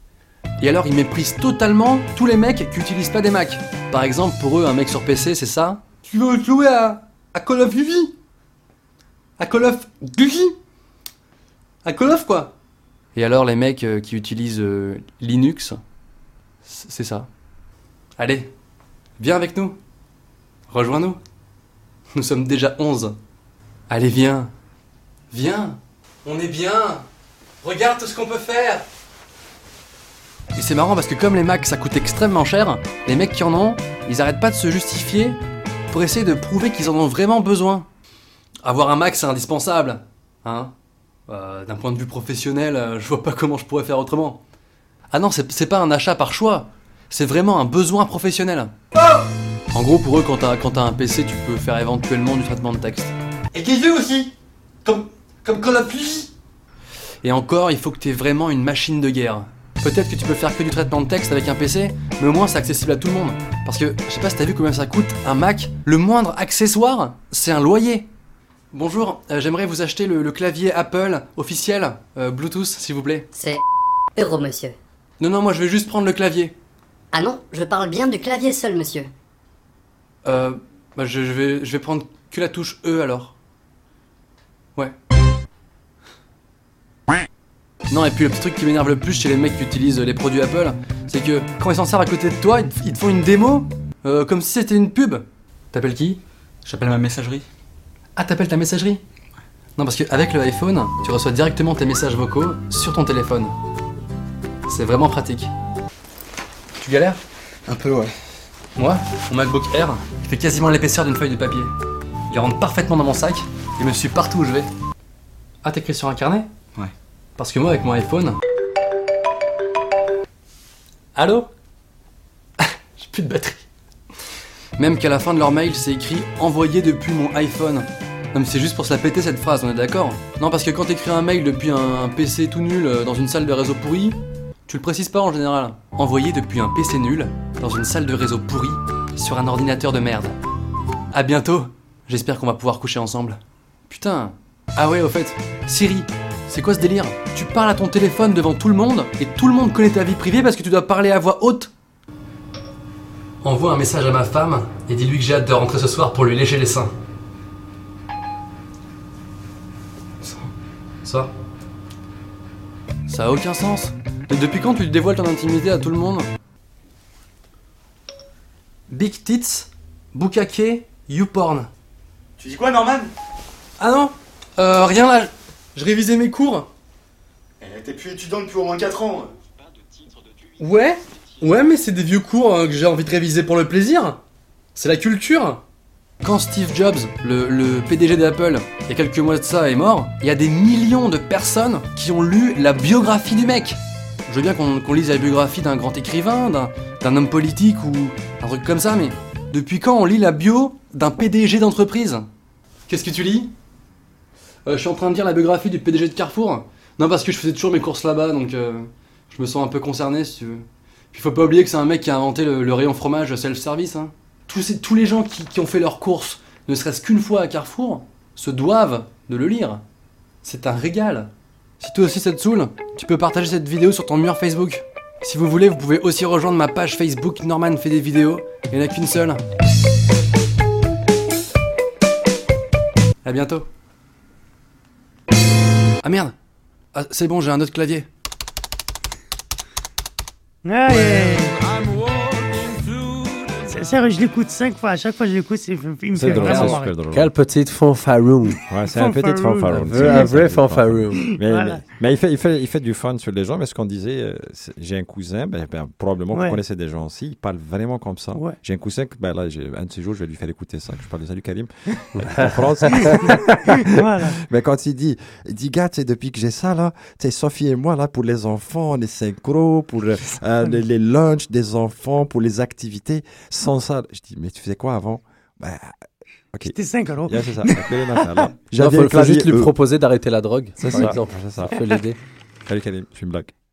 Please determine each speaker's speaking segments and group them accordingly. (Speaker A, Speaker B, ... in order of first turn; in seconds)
Speaker A: 0.6-8.1, 9.4-10.6, 11.8-12.5, 13.2-15.8, 16.6-17.3, 18.2-18.5, 19.2-19.8, 20.7-21.2, 22.1-23.2, 23.9-24.5, 25.3-27.1, 27.6-28.9, 30.5-35.4, 35.9-37.9, 38.6-40.7, 41.3-44.4, 45.1-48.8, 49.7-54.3, 54.9-56.3, 57.2-68.1, 68.7-73.3, 75.2-76.6, 80.2-83.3, 87.9-97.4, 98.2-99.0, 99.8-103.5, 104.7-105.5, 106.8-108.1, 108.8-111.7, 112.3-114.7, 115.6-118.4, 121.2-121.5, 122.6-123.6, 124.8-140.4, 141.1-151.7, 153.4-156.9, 160.2-160.5, 161.0-161.3, 163.1-166.3, 168.9-171.7, 173.8-176.7, 180.6-184.2, 184.8-185.6, 186.2-202.3, 202.9-203.5, 204.7-219.8, 220.4-229.5, 233.2-233.7, 236.0-236.3, 236.9-238.1
Speaker B: 73.3-73.6, 74.2-74.8, 77.1-79.1
Speaker C: 172.4-173.1, 177.6-179.3
Speaker D: 240.7-241.6, 243.6-246.9, 248.9-250.3, 251.1-251.8, 256.3-256.6, 262.9-264.4, 276.7-278.3
Speaker E: 246.1-247.3, 248.7-276.0, 276.5-279.7, 280.8-281.8, 282.7-283.5
Speaker F: 246.4-248.6, 249.7-251.2, 262.1-263.1, 278.8-282.2